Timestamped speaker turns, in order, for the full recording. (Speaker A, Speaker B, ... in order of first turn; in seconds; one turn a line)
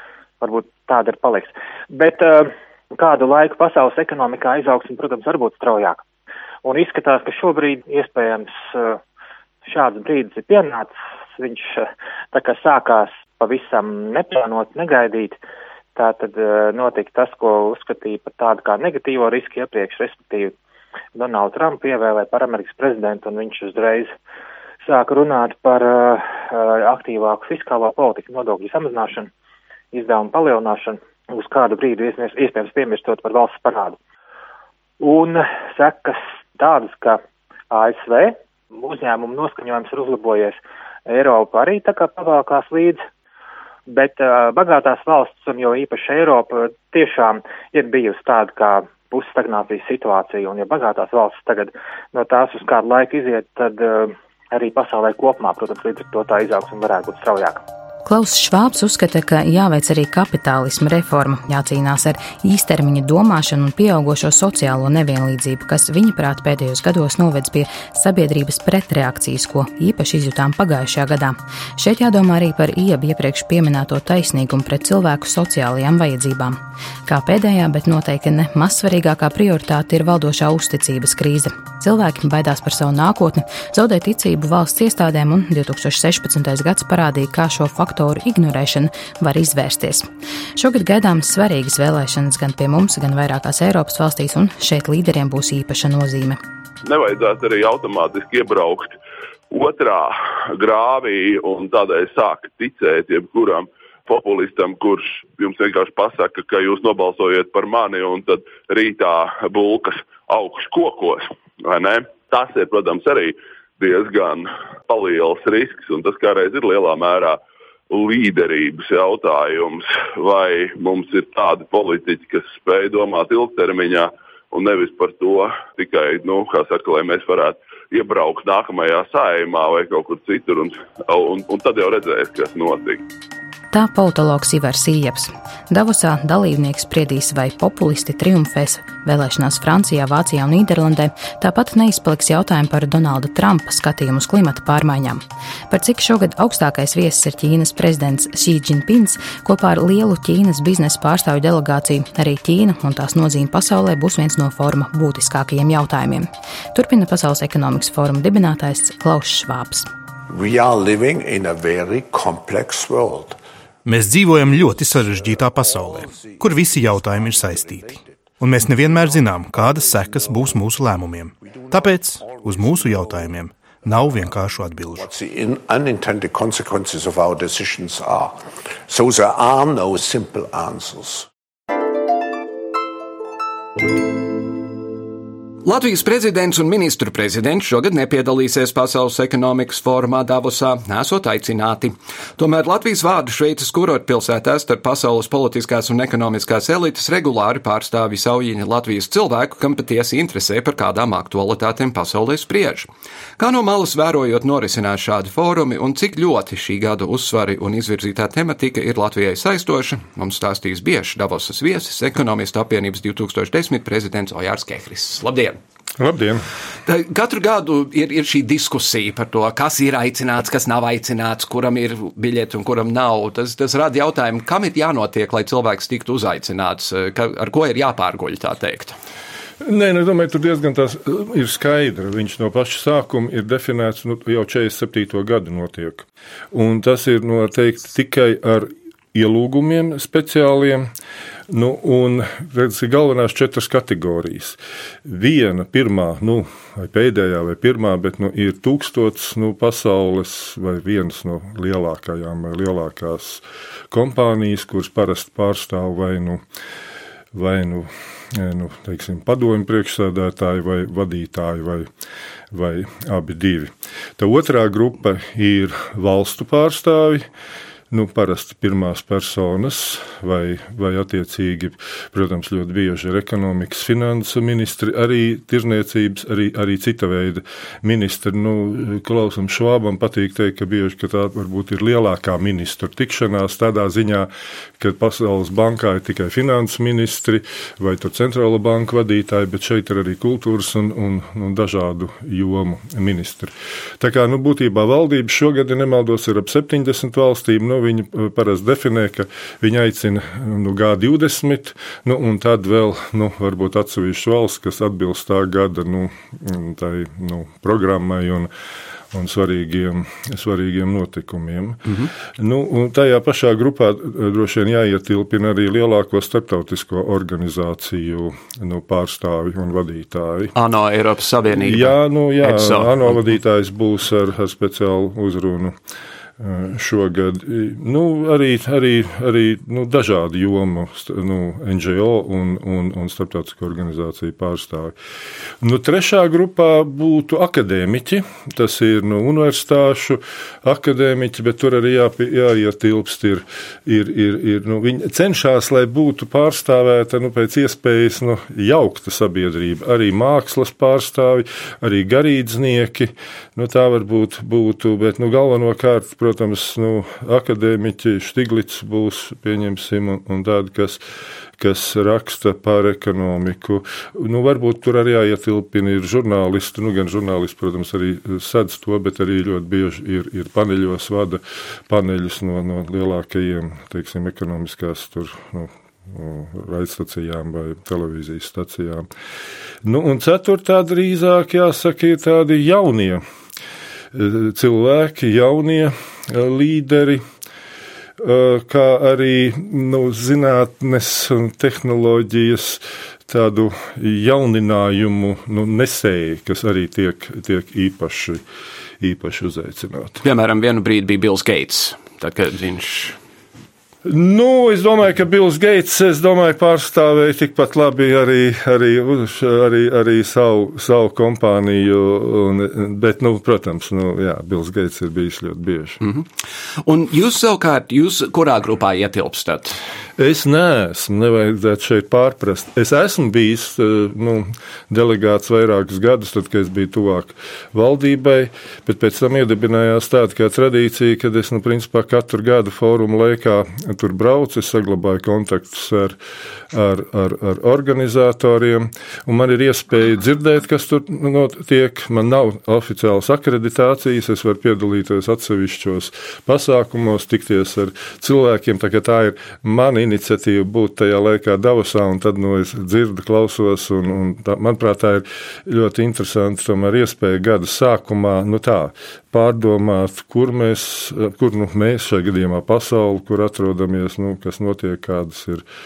Speaker A: 0.4-6.0
Speaker A: 6.6-9.0
Speaker A: 9.6-15.4
Speaker A: 15.9-20.5
Speaker A: 21.1-24.1
Speaker A: 24.8-29.3
Speaker A: 29.9-34.0
Speaker A: 35.0-43.0
Speaker A: 43.9-57.6
Speaker B: 58.0-96.4
Speaker C: 96.8-99.0
Speaker C: 99.5-117.4
Speaker C: 117.9-133.0
Speaker B: 133.7-159.9
Speaker D: 160.3-163.4
Speaker E: 163.8-175.1
Speaker D: 165.1-168.1
Speaker D: 168.7-170.6
Speaker D: 171.4-173.3
Speaker D: 174.9-181.3
Speaker F: 185.6-215.6
Speaker G: 216.0-216.4
Speaker F: 216.8-228.9
Speaker G: 229.6-240.9
Speaker G: 241.5-256.4
Speaker G: 257.3-261.9
Speaker G: 262.5-267.3
Speaker G: 267.9-308.5
Speaker G: 309.1-320.5
Speaker F: 320.6-323.2
Speaker G: 321.6-325.8
Speaker G: 326.4-334.9
Speaker G: 335.6-361.0
Speaker G: 361.6-379.1
Speaker G: 379.8-383.2
Speaker G: 384.1-387.2
Speaker G: 388.2-398.4
Speaker G: 399.0-400.2
Speaker F: 400.2-403.1
Speaker G: 404.0-416.0
Speaker F: 416.8-419.8
Speaker G: 420.2-436.2
Speaker G: 436.7-465.6